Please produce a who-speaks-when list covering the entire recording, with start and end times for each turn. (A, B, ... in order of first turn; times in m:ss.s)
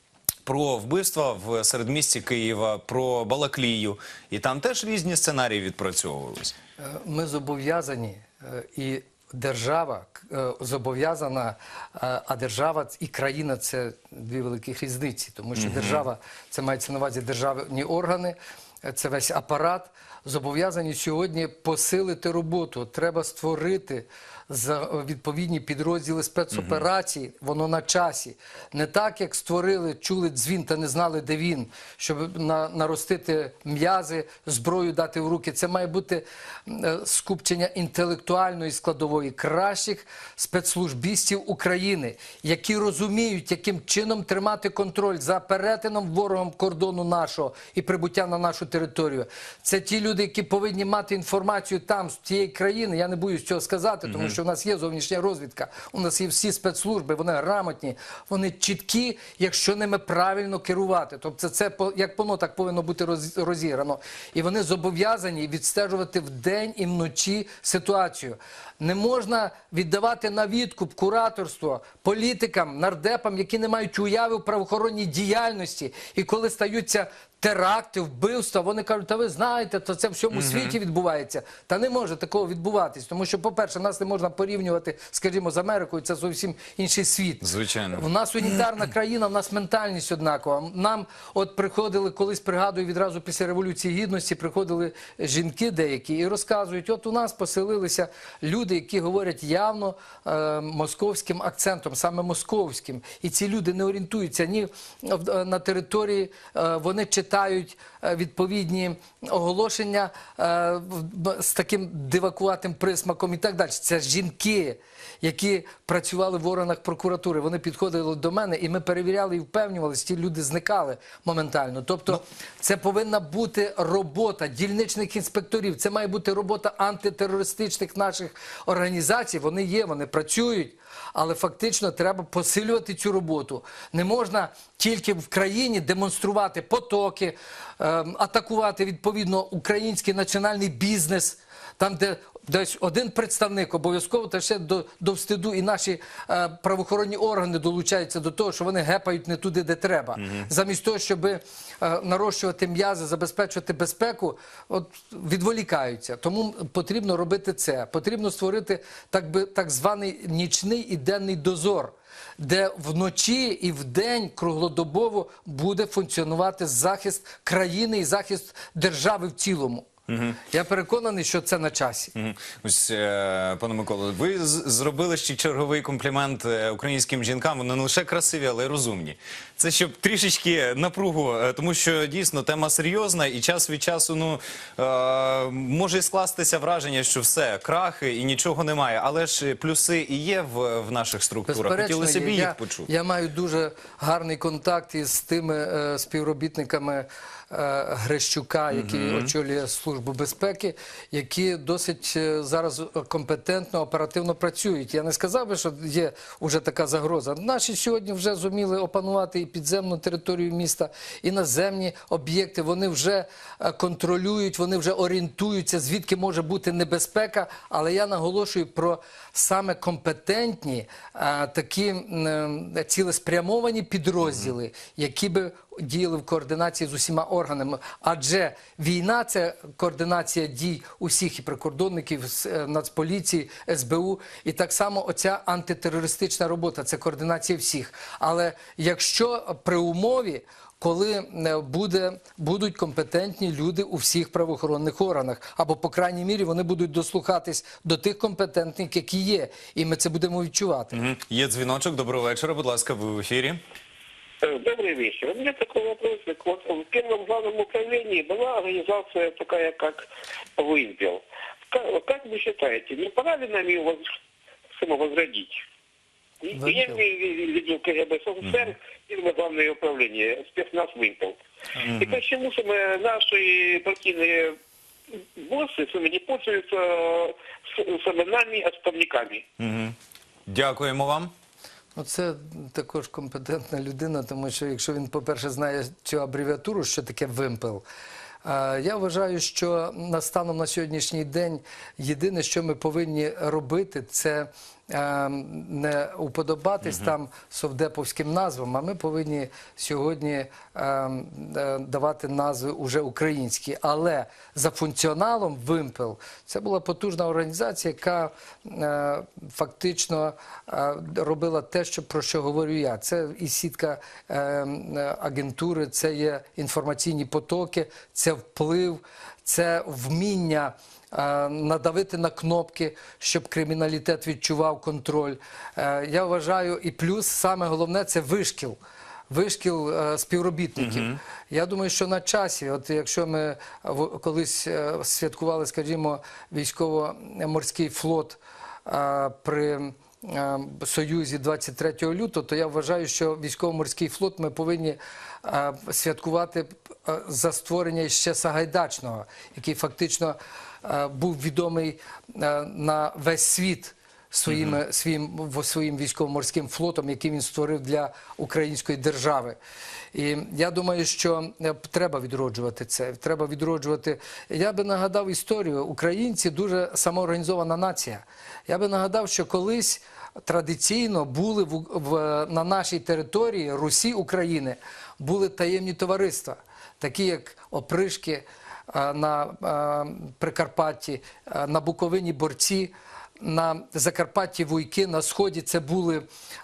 0:00.5-0:06.5 A
0:06.8-2:49.9 B
0:15.6-0:16.0 A
0:26.5-0:26.8 A
0:54.1-0:54.4 A
1:20.3-1:20.8 A
1:27.4-1:28.0 A
2:30.2-2:30.5 A
2:50.1-2:50.4 A
2:50.5-2:52.1 B
2:52.2-3:12.9 A
3:11.5-4:11.0 B
3:18.7-3:19.3 A
3:44.2-3:44.5 A
4:10.9-4:13.6 A
4:14.4-4:24.2 C
4:24.8-4:25.6 C
4:26.4-4:34.6 C
4:26.6-4:27.0 B
4:31.8-4:32.2 A
4:35.1-4:39.4 C
4:39.6-4:40.0 A
4:40.5-4:41.3 A
4:42.0-4:47.8 B
4:48.4-5:28.8 B
5:29.3-5:59.6 B
5:30.8-5:31.2 A
5:54.5-5:54.8 A
6:00.1-6:26.3 B